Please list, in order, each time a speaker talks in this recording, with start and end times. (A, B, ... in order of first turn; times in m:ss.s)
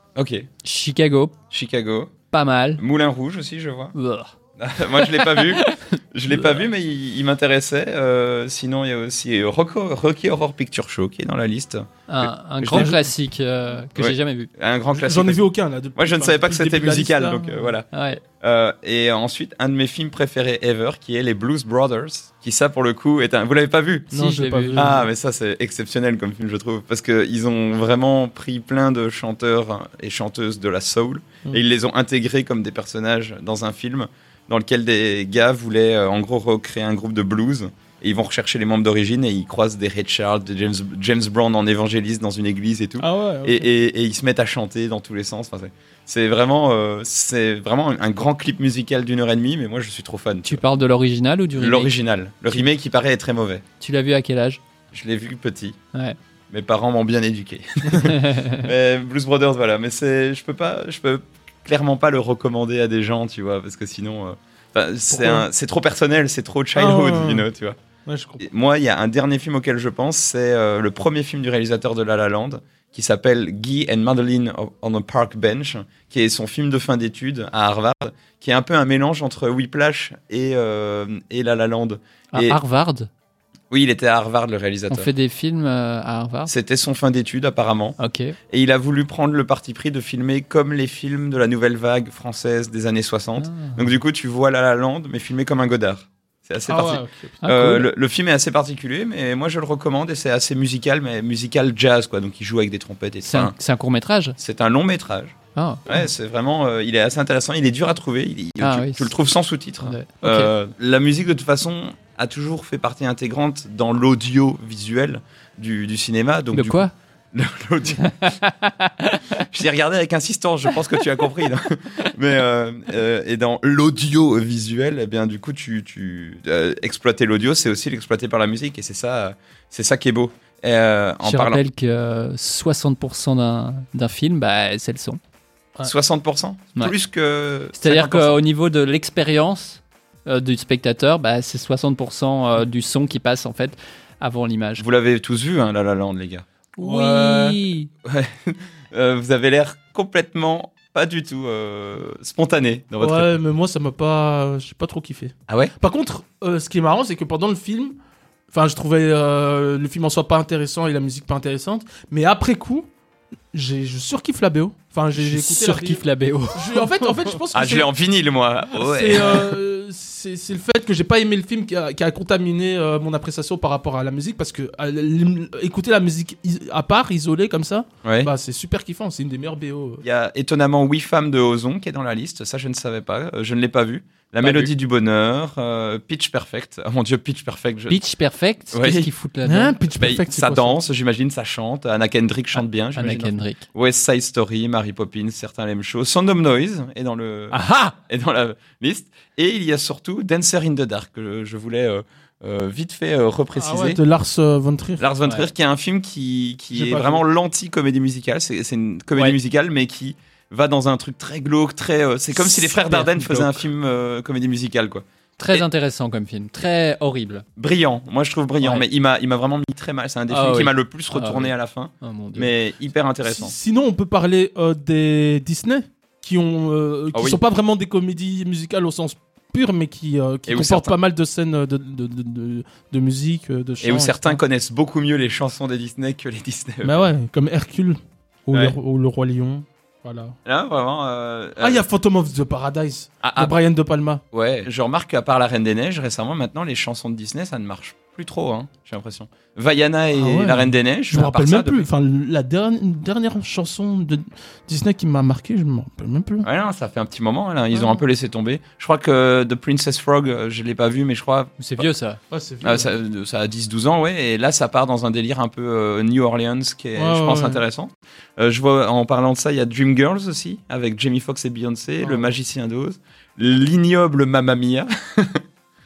0:00.2-0:00.5 A
0:00.6-0:01.4 B
0:01.5-0:02.1 A
0:02.3-0:02.8 B
0:02.8-0:03.9 A
0:03.9-0:04.3 B
0:04.6-0:13.0 A
0:04.9-0:05.8 B
0:12.1-0:14.5 B
0:12.7-0:13.0 C
0:14.0-0:15.4 A
0:14.9-0:17.7 C
0:15.9-0:24.1 A
0:17.9-0:18.2 B
0:24.1-0:25.0 B
0:24.1-0:25.1 C
0:24.8-0:50.6 A
0:43.0-0:43.7 C
0:50.4-0:51.9 B
0:51.6-0:53.6 A
0:53.8-0:54.6 B
0:54.9-0:55.8 A
0:56.5-1:07.8 A
0:58.1-0:58.6 B
1:05.1-1:05.5 C
1:06.7-1:07.5 C
1:08.0-1:08.4 C
1:08.4-1:22.6 A
1:22.3-1:23.1 B
1:23.7-1:25.1 A
1:24.9-1:26.5 B
1:26.5-1:28.0 A
1:28.0-1:28.4 B
1:28.5-1:43.5 A
1:33.4-1:33.9 B
1:36.7-1:37.4 C
1:37.4-1:37.9 B
1:43.2-1:44.4 B
1:44.4-1:45.4 A
1:45.5-1:45.8 B
1:45.9-1:58.3 A
1:48.6-1:49.1 B
1:49.8-1:50.5 B
1:56.5-1:56.9 B
1:58.0-1:59.4 B
1:59.4-2:11.6 A
2:11.2-2:15.2 B
2:15.8-2:18.4 A
2:17.7-2:24.8 B
2:24.8-2:26.4 A
2:26.8-2:27.9 B
2:26.8-2:27.6 C
2:28.0-2:33.4 A
2:33.0-2:37.9 C
2:35.5-2:35.7 A
2:38.5-2:42.9 C
2:43.5-2:47.9 C
2:45.1-2:47.4 B
2:47.5-2:49.6 A
2:48.7-3:00.0 C
2:58.0-2:58.3 A
3:00.0-3:08.0 A
3:04.4-3:04.7 B
3:07.9-3:09.8 B
3:08.7-3:09.1 A
3:09.4-3:10.8 C
3:09.9-3:24.0 A
3:12.6-3:13.6 B
3:17.5-3:17.9 B
3:23.5-3:25.0 C
3:25.0-3:35.6 A
3:25.2-3:25.5 B
3:26.7-3:27.2 C
3:32.3-3:33.6 B
3:35.4-3:37.4 B
3:37.6-3:43.5 A
3:38.6-3:38.8 B
3:40.3-3:42.5 B
3:43.2-3:54.4 C
3:47.1-3:47.4 A
3:50.5-3:50.9 A
3:53.8-3:57.1 A
3:56.8-4:00.4 C
4:00.4-4:01.8 A
4:01.6-4:04.2 C
4:03.2-4:03.5 A
4:04.3-4:11.9 A
4:10.1-4:16.5 C
4:16.4-4:21.9 A
4:17.7-4:18.0 C
4:21.6-4:22.2 B
4:22.3-4:22.9 C
4:22.6-4:35.4 A
4:27.0-4:27.6 C
4:32.0-4:32.3 C